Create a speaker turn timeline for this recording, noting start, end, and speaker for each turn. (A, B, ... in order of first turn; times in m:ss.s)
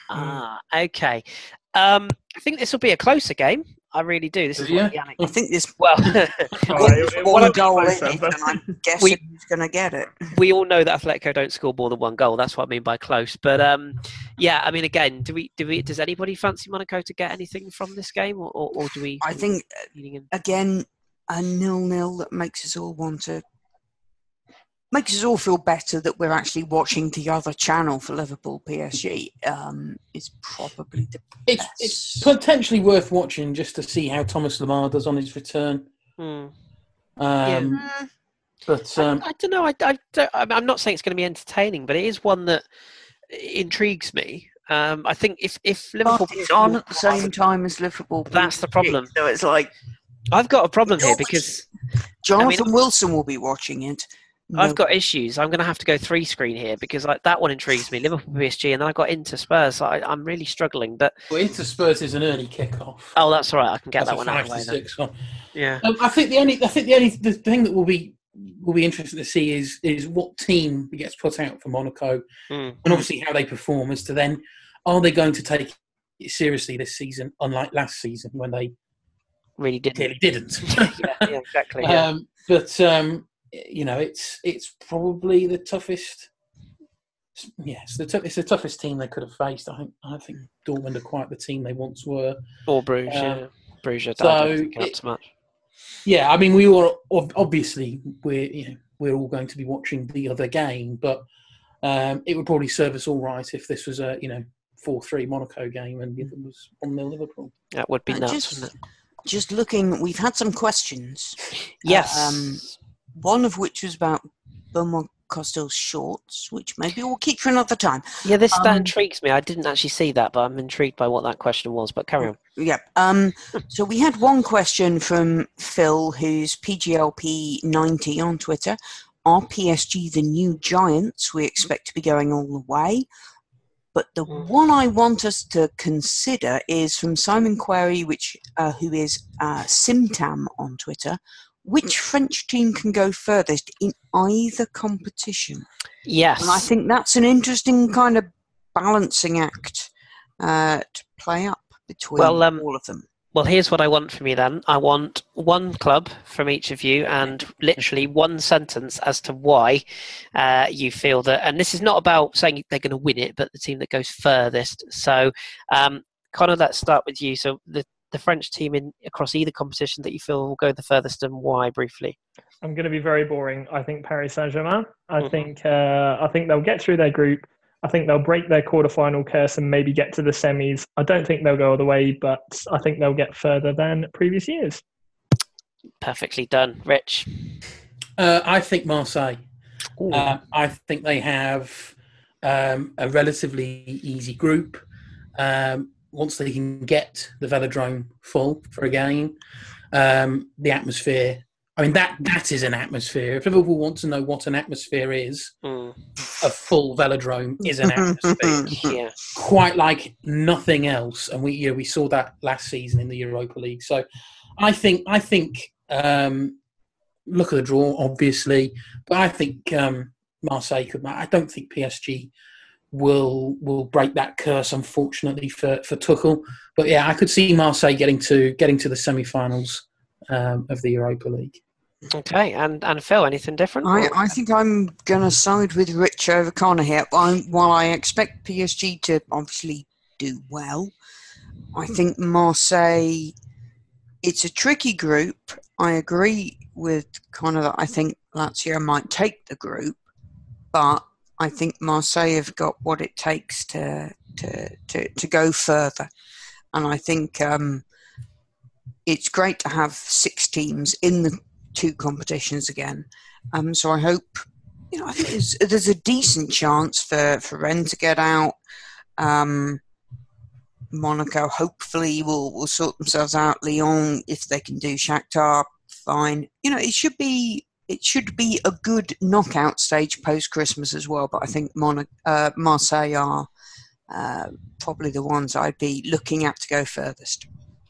0:00.1-0:05.2 A
0:04.6-0:05.3 B
0:05.2-0:05.8 C
0:05.8-0:07.6 A
0:06.7-0:08.6 D
0:06.7-0:10.3 C
0:10.3-0:20.3 A
0:18.8-0:19.7 C
0:20.3-0:23.4 C
0:24.9-0:32.3 C
0:31.5-0:35.9 B
0:36.2-0:36.5 A
0:37.2-0:37.9 B
0:37.4-0:37.8 A
0:37.8-0:38.1 C
0:38.7-0:39.3 B
0:39.0-0:42.6 A
0:43.3-0:47.3 A
0:46.0-0:49.7 C
0:48.3-0:49.1 A
0:50.3-0:51.7 A
0:50.9-0:51.4 C
0:52.2-0:54.8 C
0:52.4-0:52.7 A
0:54.6-1:01.1 A
1:01.3-1:03.2 B
1:03.2-1:04.8 A
1:04.0-1:05.2 B
1:05.6-1:05.8 A
1:05.8-1:12.2 B
1:12.5-1:13.0 A
1:12.8-1:18.7 B
1:19.6-1:20.1 A
1:20.0-1:26.3 B
1:20.7-1:22.1 A
1:27.4-1:32.4 B
1:32.7-1:35.3 A
1:33.1-1:33.4 B
1:34.2-1:35.0 B
1:36.0-1:41.2 B
1:41.8-1:47.5 B
1:47.7-1:48.7 A
1:48.1-1:48.7 C
1:49.2-1:58.9 C
1:51.8-1:52.7 A
1:58.2-2:02.4 A
2:02.3-2:13.1 C
2:13.9-2:25.7 C
2:26.1-2:26.7 A
2:26.4-2:33.1 C
2:32.2-2:32.6 A
2:33.3-2:39.8 A
2:40.4-2:52.2 A
2:52.6-3:04.8 D
2:55.2-2:55.5 A
3:06.0-3:07.6 A
3:08.2-3:09.4 B
3:10.0-3:10.3 A
3:10.1-3:14.8 B
3:15.4-3:19.4 B
3:19.9-3:25.5 B
3:25.6-3:26.0 A
3:26.4-3:34.0 B
3:27.7-3:29.0 C
3:28.7-3:29.2 A
3:34.6-3:36.6 B
3:37.3-3:42.3 B
3:42.9-3:51.6 B
3:52.1-3:54.3 A
3:53.8-4:00.9 C
4:01.7-4:03.3 C
4:04.2-4:10.0 C
4:10.7-4:16.1 C
4:16.7-4:17.8 C
4:19.1-4:28.6 C
4:29.2-4:29.8 C
4:30.9-4:43.5 C
4:44.1-4:47.5 C